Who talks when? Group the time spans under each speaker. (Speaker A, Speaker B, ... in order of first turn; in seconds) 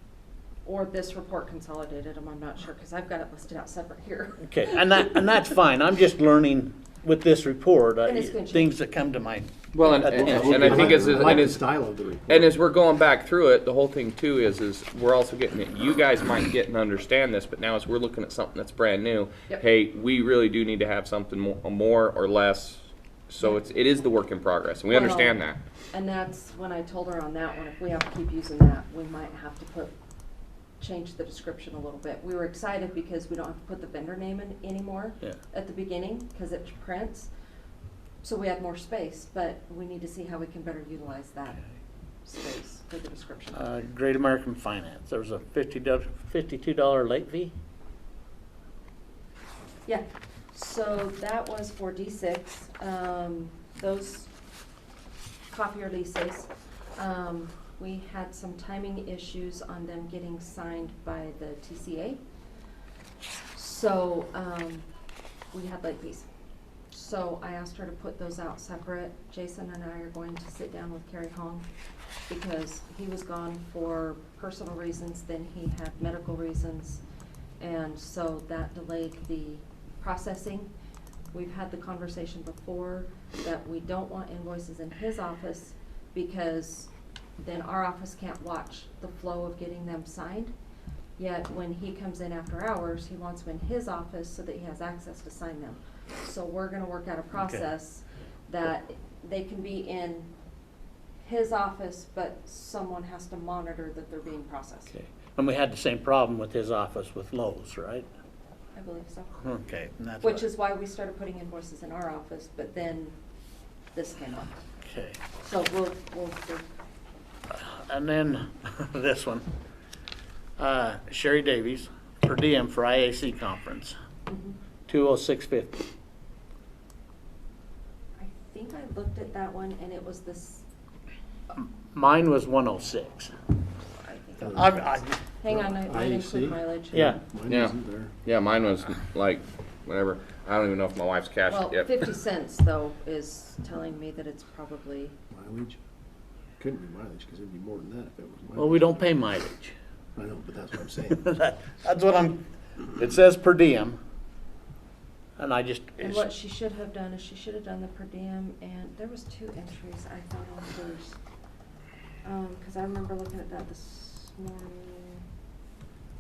Speaker A: 0.7-4.8, 8.0-8.8, 24.9-25.4, 25.9-29.9, 30.8-37.3, 38.2-41.6, 42.2-43.6, 49.9-54.3, 55.5-62.2, 63.5-64.9, 65.5-66.3, 66.9-71.7, 72.3-77.0, 77.6-80.7, 81.3-90.5, 91.2-100.3, 101.2-104.9, 108.8-109.3, 110.2-113.2, 113.9-114.6, 115.4-116.6, 124.3-124.6, 128.2-130.6, 133.7-137.2, 141.5-145.2, 156.0-161.2, 162.2-165.2
Speaker B: 4.4-11.3, 43.5-47.5, 104.9-108.1, 109.4-110.5, 114.8-115.2, 117.5-119.5, 120.6-124.0, 124.9-125.9, 131.6-133.3, 134.4-135.2, 136.9-137.2, 148.6-149.8, 151.1-152.4, 152.9-154.0, 155.4-156.3
Speaker C: 9.7-11.7, 12.3-25.6, 137.5-142.0
Speaker D: 10.1-12.6, 135.5-138.1, 145.3-145.8, 146.6-148.9, 150.2-151.2